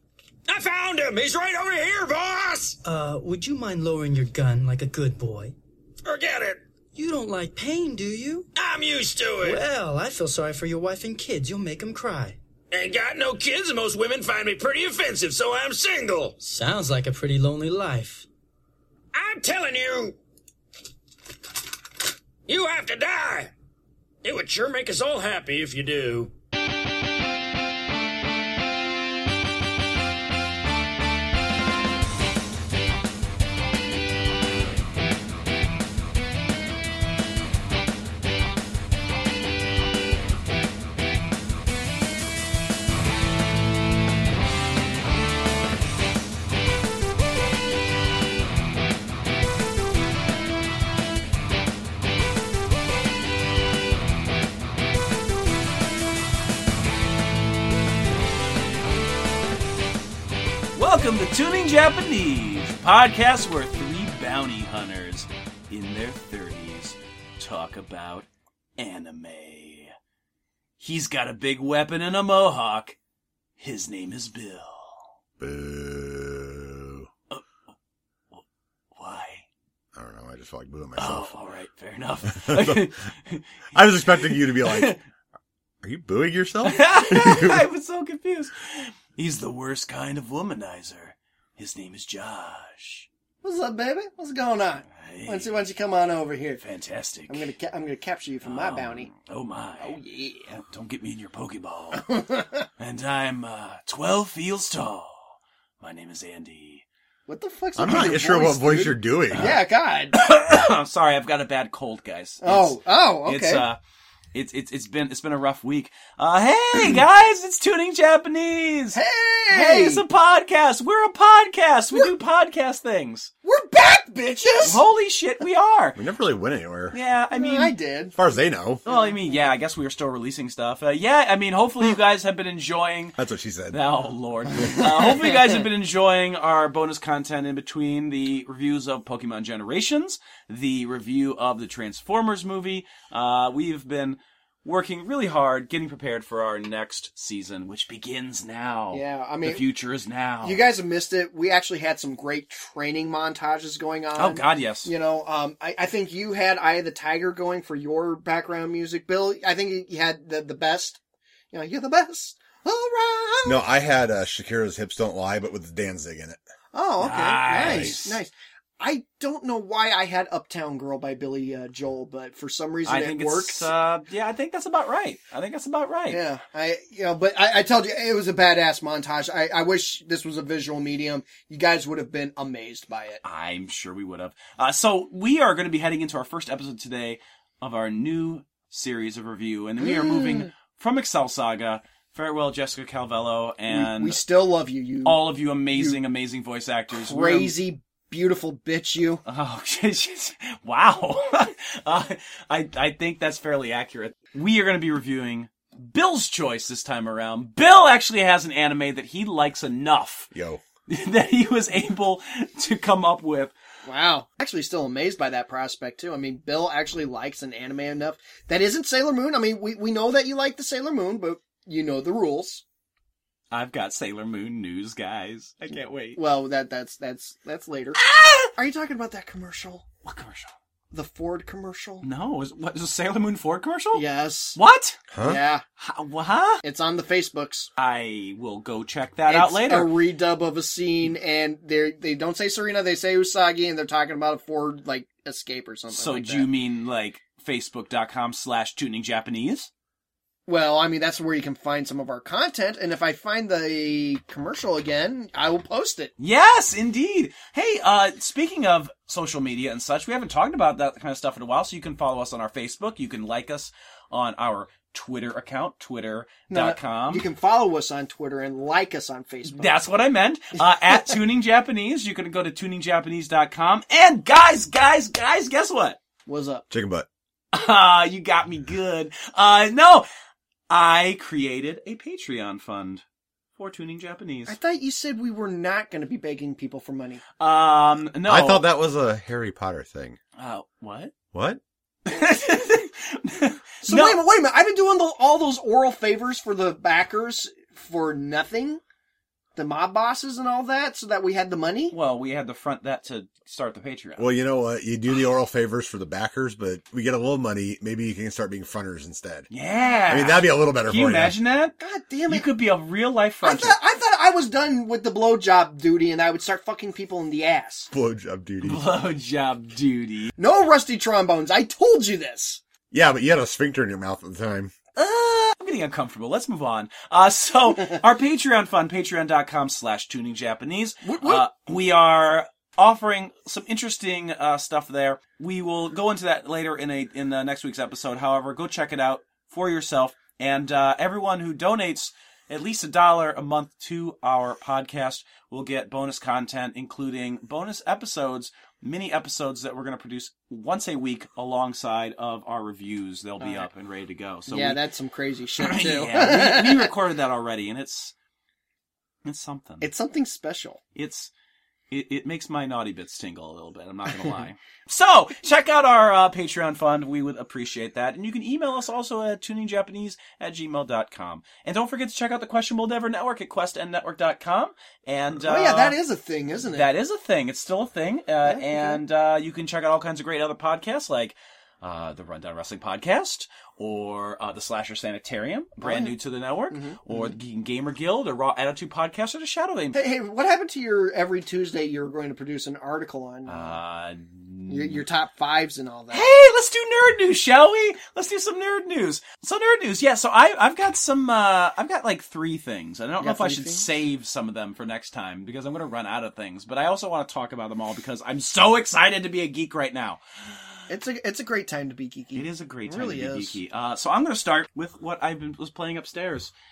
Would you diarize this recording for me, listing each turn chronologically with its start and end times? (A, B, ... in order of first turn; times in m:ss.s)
0:00.5-0:02.8 A
0:02.8-0:05.5 B
0:06.0-0:06.6 A
0:06.9-0:08.5 B
0:08.6-0:09.6 A
0:09.4-0:12.4 B
0:12.7-0:16.4 A
0:16.4-0:18.3 B
0:19.1-0:20.2 A
0:22.5-0:23.5 A
0:24.2-0:26.3 A
1:00.8-1:10.0 C
1:10.8-1:13.0 C
1:13.6-1:15.1 C
1:15.4-1:17.1 D
1:19.0-1:19.5 C
1:20.0-1:21.4 D
1:21.0-1:25.0 C
1:22.3-1:22.9 D
1:23.7-1:25.0 D
1:25.8-1:27.6 D
1:26.6-1:33.1 C
1:33.4-1:36.6 E
1:34.9-1:35.6 C
1:36.6-1:37.5 C
1:37.3-1:39.1 E
1:38.4-1:42.2 C
1:39.8-1:40.5 E
1:42.0-1:42.7 E
1:42.8-1:46.8 C
1:47.3-1:50.2 E
1:47.8-1:49.5 D
1:49.3-1:49.6 C
1:50.1-1:53.8 C
1:52.4-1:53.6 E
1:54.3-2:03.3 C
1:58.9-2:00.0 E
2:03.4-2:04.8 E
2:04.6-2:06.0 C
2:06.0-2:07.0 D
2:06.9-2:07.7 C
2:07.3-2:08.2 E
2:08.2-2:08.8 D
2:08.8-2:09.3 E
2:08.9-2:13.2 C
2:13.2-2:13.8 D
2:13.7-2:30.6 C
2:28.9-2:29.7 E
2:30.4-2:41.0 E
2:34.2-2:34.9 C
2:41.5-2:43.6 E
2:43.4-2:46.4 D
2:46.7-2:53.7 E
2:47.0-2:48.2 C
2:47.6-2:47.9 D
2:52.9-2:56.2 C
2:56.1-3:03.2 E
3:03.2-3:14.2 C
3:09.8-3:10.5 E
3:13.7-3:15.2 E
3:15.0-3:17.5 C
3:15.7-3:16.0 E
3:16.9-3:19.2 E
3:19.3-3:30.3 C
3:30.3-3:30.6 D
3:30.9-3:33.5 C
3:33.9-3:42.6 E
3:43.5-3:46.2 C
3:46.2-3:48.0 E
3:48.0-3:48.5 C
3:48.5-3:49.8 E
3:50.0-3:50.5 C
3:50.9-3:52.1 E
3:52.0-3:55.0 C
3:53.9-3:54.6 E
3:55.1-3:55.4 D
3:55.2-3:55.6 E
3:55.8-3:56.6 C
3:56.6-3:57.7 E
3:57.8-3:59.9 C
3:59.3-4:06.5 E
4:05.9-4:09.7 C
4:10.5-4:16.1 E
4:16.2-4:27.2 C
4:26.5-4:29.8 E
4:29.5-4:36.0 C
4:36.3-4:36.7 E
4:36.7-4:37.1 D
4:37.5-4:40.1 C
4:40.7-4:43.0 C
4:43.6-4:44.6 C
4:44.5-4:47.2 E
4:47.4-4:48.7 C
4:48.2-4:50.2 D
4:50.4-4:51.1 C
4:51.3-4:51.6 D
4:52.0-4:54.2 C
4:53.8-4:58.8 E
4:59.6-5:02.0 E
5:01.9-5:04.3 C
5:04.2-5:09.5 D
5:09.5-5:11.8 C
5:10.1-5:11.4 D
5:11.8-5:12.5 E
5:12.3-5:13.8 C
5:13.4-5:17.9 E
5:17.9-5:18.9 D
5:18.6-5:20.3 C
5:20.4-5:22.6 E
5:22.9-5:24.7 D
5:25.0-5:54.8 C
5:31.0-5:31.4 E
5:53.4-5:53.7 E
5:54.5-5:56.9 E
5:55.6-5:58.1 C
5:59.2-5:59.9 C
5:59.8-6:00.8 E
6:01.0-6:01.3 C
6:01.9-6:16.0 C
6:15.4-6:16.9 E
6:16.7-6:30.0 C
6:18.4-6:19.0 E
6:25.8-6:26.2 E
6:26.7-6:27.4 E
6:29.9-6:33.8 E
6:33.5-6:35.0 C
6:34.7-6:36.3 E
6:36.1-6:50.2 C
6:43.2-6:43.9 E
6:50.9-6:53.6 E
6:52.4-6:56.5 C